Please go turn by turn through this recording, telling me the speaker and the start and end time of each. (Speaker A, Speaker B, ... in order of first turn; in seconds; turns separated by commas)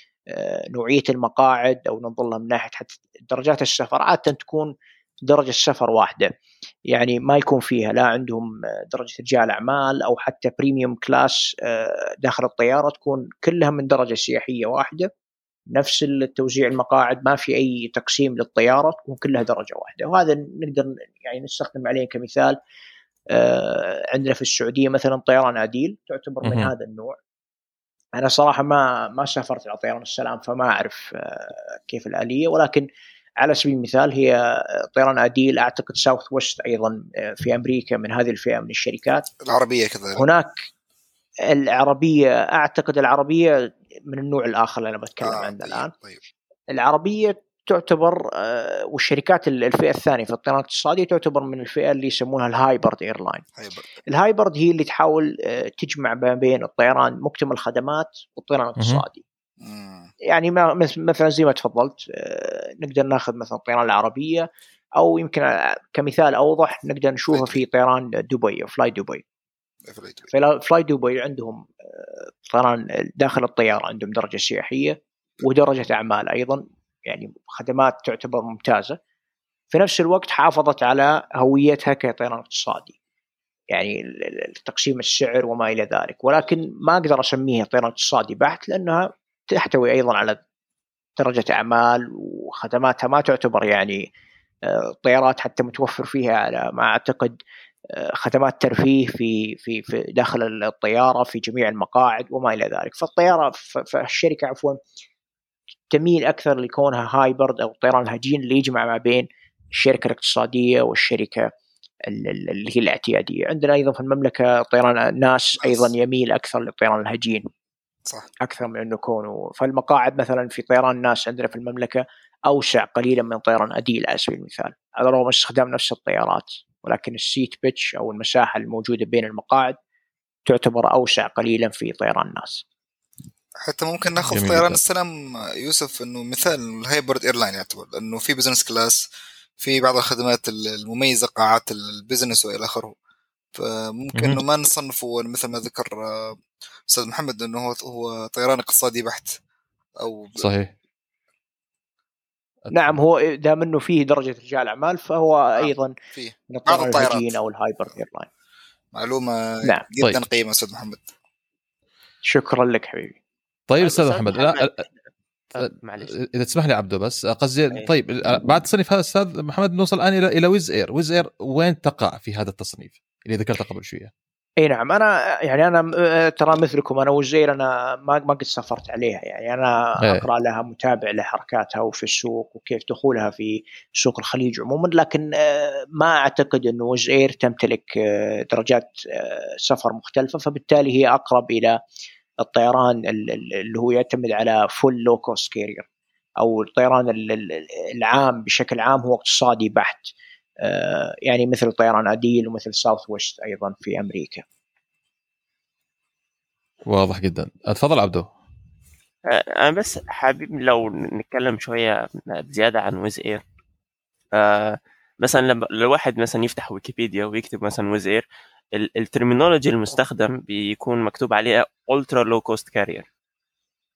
Speaker A: 0.3-4.7, Speaker A: 5.3-6.3, Speaker A: 6.9-15.1, Speaker A: 15.7-22.6, Speaker A: 23.3-27.2, Speaker B: 26.4-26.7, Speaker A: 28.2-32.9, Speaker A: 33.4-39.3, Speaker C: 39.4-40.2, Speaker A: 40.2-40.5, Speaker A: 41.5-45.9, Speaker C: 45.2-46.2, Speaker A: 46.7-53.5, Speaker C: 53.6-53.9, Speaker A: 54.1-59.2, Speaker B: 58.8-59.0, Speaker C: 59.6-60.1, Speaker A: 60.2-69.2, Speaker C: 67.3-67.6, Speaker C: 69.9-70.3, Speaker A: 70.3-79.0, Speaker A: 79.7-83.0, Speaker A: 83.7-90.4, Speaker A: 91.2-94.0, Speaker A: 94.7-97.4, Speaker A: 97.9-104.8, Speaker A: 105.9-111.5, Speaker A: 112.1-117.4, Speaker C: 115.6-115.9, Speaker A: 118.4-129.8, Speaker A: 130.5-132.6, Speaker C: 133.6-139.0, Speaker B: 134.2-134.8, Speaker C: 139.6-142.9, Speaker C: 143.6-149.3, Speaker C: 150.0-150.5, Speaker B: 150.4-150.7, Speaker A: 152.7-155.9, Speaker C: 155.6-157.3, Speaker A: 156.5-158.3, Speaker C: 158.9-161.1, Speaker A: 162.2-163.2, Speaker B: 163.7-164.8, Speaker D: 163.8-164.9, Speaker D: 165.5-166.2, Speaker B: 165.6-174.1, Speaker A: 174.6-191.8, Speaker A: 192.4-195.9, Speaker A: 196.4-204.4, Speaker B: 206.9-208.3, Speaker D: 209.3-213.4, Speaker D: 214.3-218.2, Speaker D: 218.8-223.1